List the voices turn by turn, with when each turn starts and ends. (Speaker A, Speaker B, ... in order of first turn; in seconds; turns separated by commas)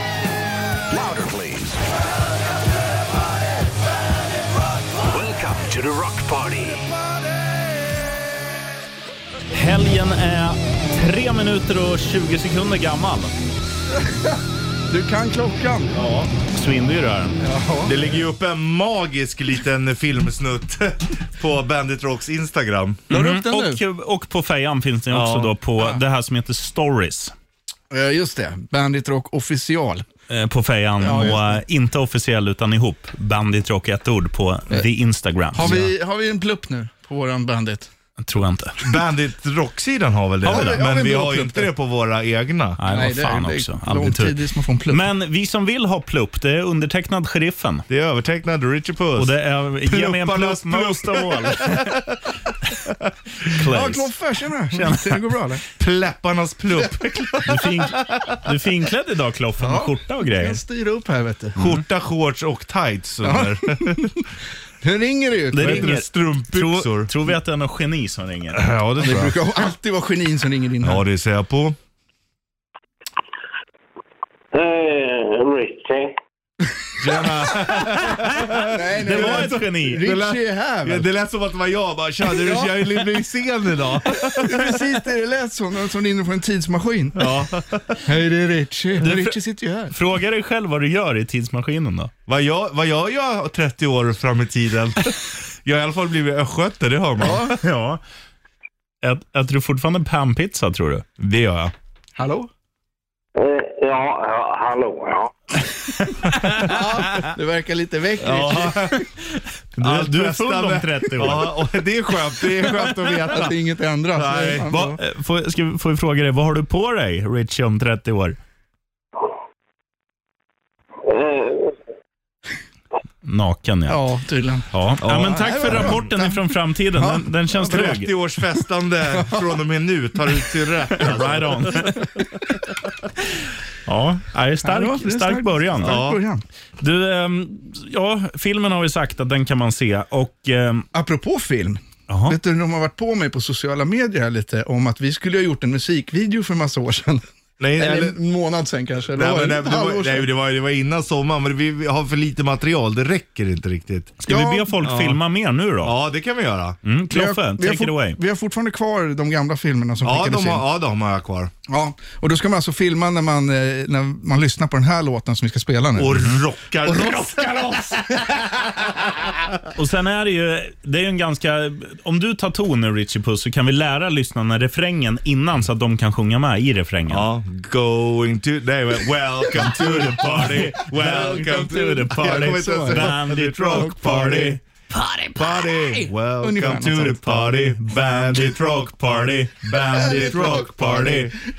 Speaker A: 0.9-1.8, Speaker A: 5.0-6.9, Speaker B: 9.5-13.3, Speaker C: 14.0-14.4, Speaker C: 14.9-15.9, Speaker D: 15.9-16.3, Speaker B: 16.5-17.4, Speaker C: 17.4-17.9, Speaker D: 17.8-23.0, Speaker B: 23.1-27.3, Speaker C: 23.1-23.8, Speaker D: 25.1-25.5, Speaker C: 27.9-30.0, Speaker B: 30.3-35.8, Speaker C: 31.0-31.6, Speaker C: 35.5-37.9, Speaker D: 35.6-35.9, Speaker B: 38.2-38.8, Speaker D: 38.8-42.8, Speaker B: 40.5-40.8, Speaker C: 40.5-41.7, Speaker B: 42.8-44.4, Speaker C: 42.9-45.0, Speaker B: 44.9-47.8, Speaker D: 47.9-49.3, Speaker B: 49.2-52.0, Speaker D: 49.8-52.3, Speaker B: 53.5-54.1, Speaker C: 53.7-55.6, Speaker B: 54.7-55.3, Speaker D: 55.8-58.4, Speaker B: 57.5-60.6, Speaker C: 59.6-61.6, Speaker D: 61.6-64.1, Speaker C: 63.2-64.2, Speaker C: 64.8-65.9, Speaker B: 65.5-68.6, Speaker D: 65.6-67.1, Speaker D: 68.5-69.4, Speaker C: 69.0-71.0, Speaker D: 70.8-71.8, Speaker E: 74.5-76.1, Speaker D: 77.0-84.9, Speaker C: 78.7-81.1, Speaker B: 79.0-80.0, Speaker C: 82.3-83.0, Speaker C: 84.1-87.3, Speaker D: 87.2-88.0, Speaker C: 88.0-89.9, Speaker B: 89.0-89.4, Speaker B: 89.9-92.1, Speaker D: 92.3-97.5, Speaker C: 97.2-97.6, Speaker B: 97.3-98.0, Speaker B: 99.0-101.0, Speaker D: 101.2-101.7, Speaker C: 102.2-102.5, Speaker E: 103.4-105.6, Speaker C: 106.6-109.0, Speaker D: 108.2-109.1, Speaker B: 109.8-111.6, Speaker D: 109.8-113.6, Speaker C: 113.3-115.0, Speaker D: 114.1-114.7, Speaker B: 114.6-118.4, Speaker E: 121.0-121.8, Speaker B: 123.2-124.0, Speaker C: 123.9-124.7, Speaker B: 124.7-128.1, Speaker D: 125.0-126.0, Speaker C: 125.3-126.4, Speaker C: 127.0-127.9, Speaker D: 127.5-132.0, Speaker C: 129.1-129.4, Speaker B: 131.0-132.2, Speaker B: 133.8-136.0, Speaker C: 134.6-136.4, Speaker D: 135.8-136.2, Speaker B: 136.8-140.9, Speaker C: 140.9-147.2, Speaker B: 142.1-142.3, Speaker D: 147.6-148.2, Speaker C: 147.8-150.3, Speaker D: 149.1-154.2, Speaker B: 154.2-155.9, Speaker C: 154.3-154.7, Speaker D: 154.8-155.2, Speaker D: 155.8-156.8, Speaker B: 156.8-158.2, Speaker C: 157.1-160.6, Speaker D: 160.0-161.5, Speaker C: 161.7-166.2, Speaker D: 165.9-169.3, Speaker B: 169.8-177.2, Speaker D: 177.1-184.6, Speaker B: 179.5-186.0, Speaker C: 182.2-183.2, Speaker D: 185.3-191.3, Speaker C: 186.4-187.3, Speaker B: 187.2-191.3, Speaker C: 189.9-191.1